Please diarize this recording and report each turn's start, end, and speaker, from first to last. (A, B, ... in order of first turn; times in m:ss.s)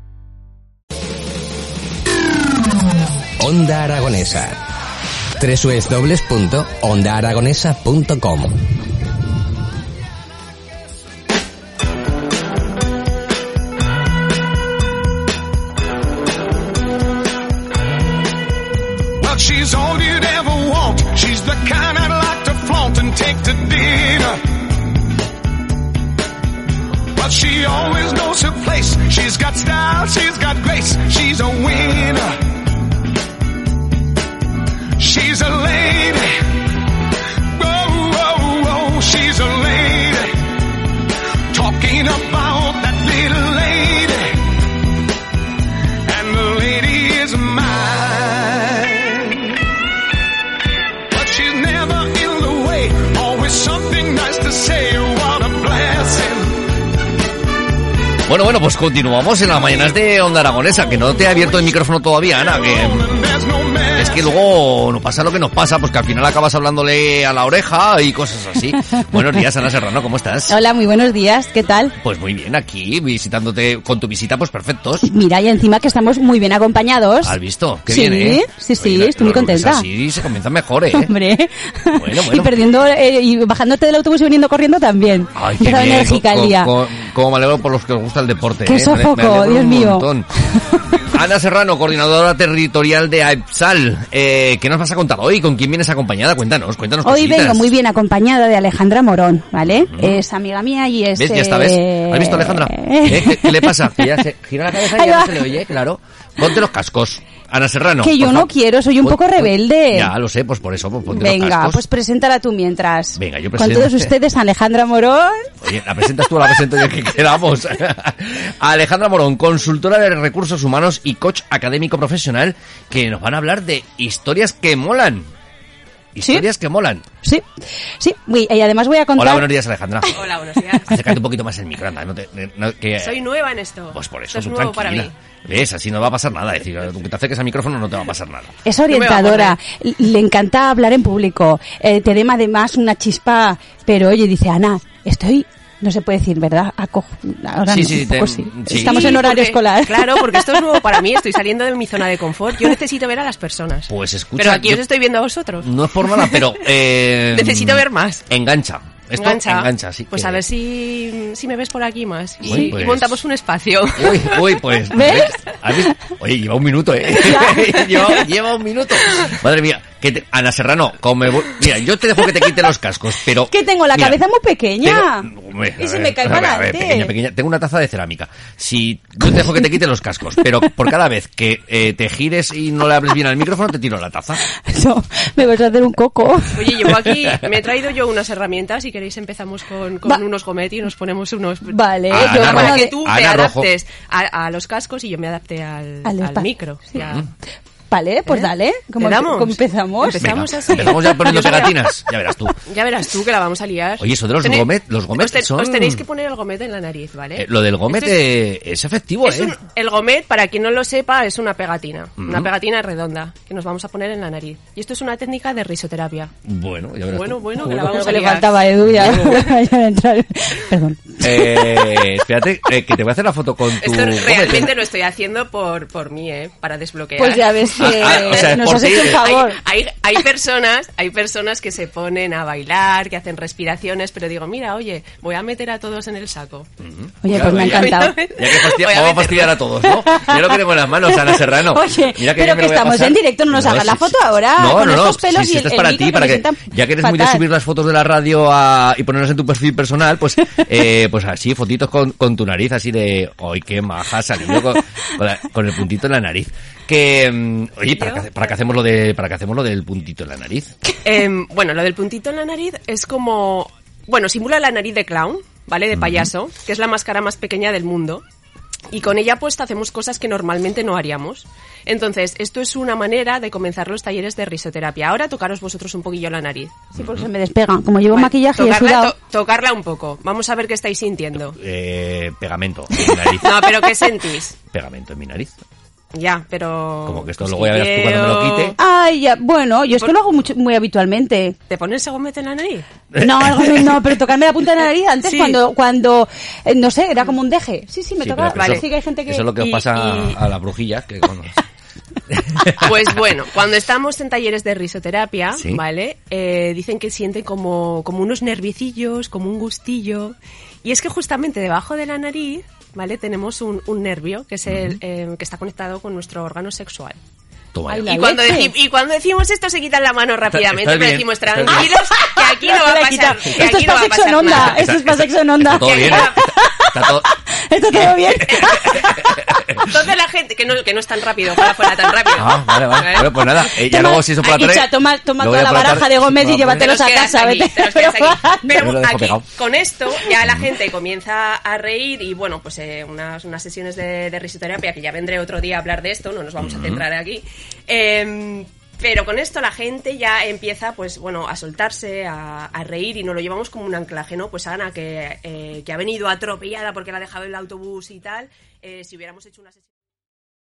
0:03.4-0:04.5 A
0:05.5-0:08.5 A
0:19.2-0:24.6 B
0:27.2-0:32.6 B
0:35.0-0:36.6 B
0:37.6-0:40.6 B
0:41.5-0:44.6 B
0:46.1-0:49.6 B
0:51.1-0:56.6 B
0:58.3-1:03.1 C
1:02.5-1:04.3 B
1:03.9-1:10.6 C
1:10.5-1:12.0 D
1:12.0-1:15.1 C
1:15.0-1:19.9 D
1:17.2-1:21.1 C
1:20.9-1:26.7 D
1:21.9-1:22.5 C
1:25.4-1:30.3 C
1:28.6-1:30.1 D
1:30.6-1:31.0 D
1:31.0-1:37.7 C
1:37.0-1:44.2 D
1:39.7-1:40.2 C
1:41.2-1:51.8 C
1:44.7-1:45.6 D
1:48.0-1:50.1 D
1:51.1-1:55.5 D
1:53.2-1:54.1 C
1:55.6-2:05.3 C
2:06.2-2:07.0 C
2:06.2-2:06.5 D
2:08.0-2:09.5 D
2:09.2-2:10.2 C
2:10.1-2:11.0 E
2:10.9-2:13.2 C
2:13.0-2:15.1 E
2:13.9-2:18.6 C
2:18.6-2:30.5 D
2:18.9-2:19.6 E
2:27.7-2:29.2 C
2:28.7-2:36.6 E
2:33.9-2:34.8 C
2:35.6-2:40.4 C
2:37.3-2:38.2 E
2:39.2-2:44.6 E
2:42.4-2:43.2 C
2:44.0-2:54.2 C
2:44.9-2:45.8 D
2:47.2-2:48.2 D
2:53.5-2:57.1 D
2:54.8-3:04.4 C
3:04.6-3:06.6 D
3:06.5-3:17.3 E
3:11.7-3:13.0 D
3:12.1-3:13.7 C
3:16.0-3:16.5 D
3:17.9-3:21.4 D
3:18.3-3:21.8 E
3:20.2-3:22.6 C
3:22.7-3:28.3 E
3:24.0-3:26.0 C
3:27.4-3:29.6 C
3:29.2-3:36.3 E
3:32.2-3:32.5 C
3:36.4-3:38.0 C
3:37.1-3:39.5 E
3:37.6-3:42.0 D
3:38.8-3:39.4 C
3:41.2-3:44.7 C
3:43.8-3:56.7 E
3:47.2-3:49.6 D
3:47.8-3:49.3 C
3:56.8-4:20.7 C
3:57.2-3:58.2 D
3:57.4-3:59.7 E
3:59.9-4:07.4 D
4:17.9-4:18.3 E
4:21.0-4:28.2 E
4:26.0-4:26.3 C
4:28.9-4:36.9 E
4:37.0-4:39.1 D
4:37.0-4:37.3 C
4:38.1-4:41.6 E
4:41.5-4:43.9 C
4:43.4-4:44.6 E
4:44.7-4:45.5 C
4:46.2-4:48.8 E
4:47.1-4:48.8 C
4:48.8-4:51.6 D
4:51.7-4:52.9 E
4:53.1-4:54.0 C
4:53.2-4:59.5 D
4:55.2-4:55.6 E
4:58.2-5:01.6 C
4:58.5-4:58.8 E
4:59.6-5:00.4 E
5:02.3-5:02.9 C
5:02.7-5:17.2 E
5:05.6-5:05.8 C
5:17.7-5:18.1 C
5:17.9-5:24.9 E
5:17.9-5:18.7 D
5:20.5-5:21.9 C
5:21.7-5:29.4 D
5:24.5-5:27.3 C
5:25.7-5:26.5 E
5:28.4-5:29.8 C
5:29.8-5:33.6 E
5:32.4-5:36.8 C
5:33.8-5:38.8 D
5:36.7-5:59.9 E
5:38.8-5:39.5 C
5:46.6-5:47.0 C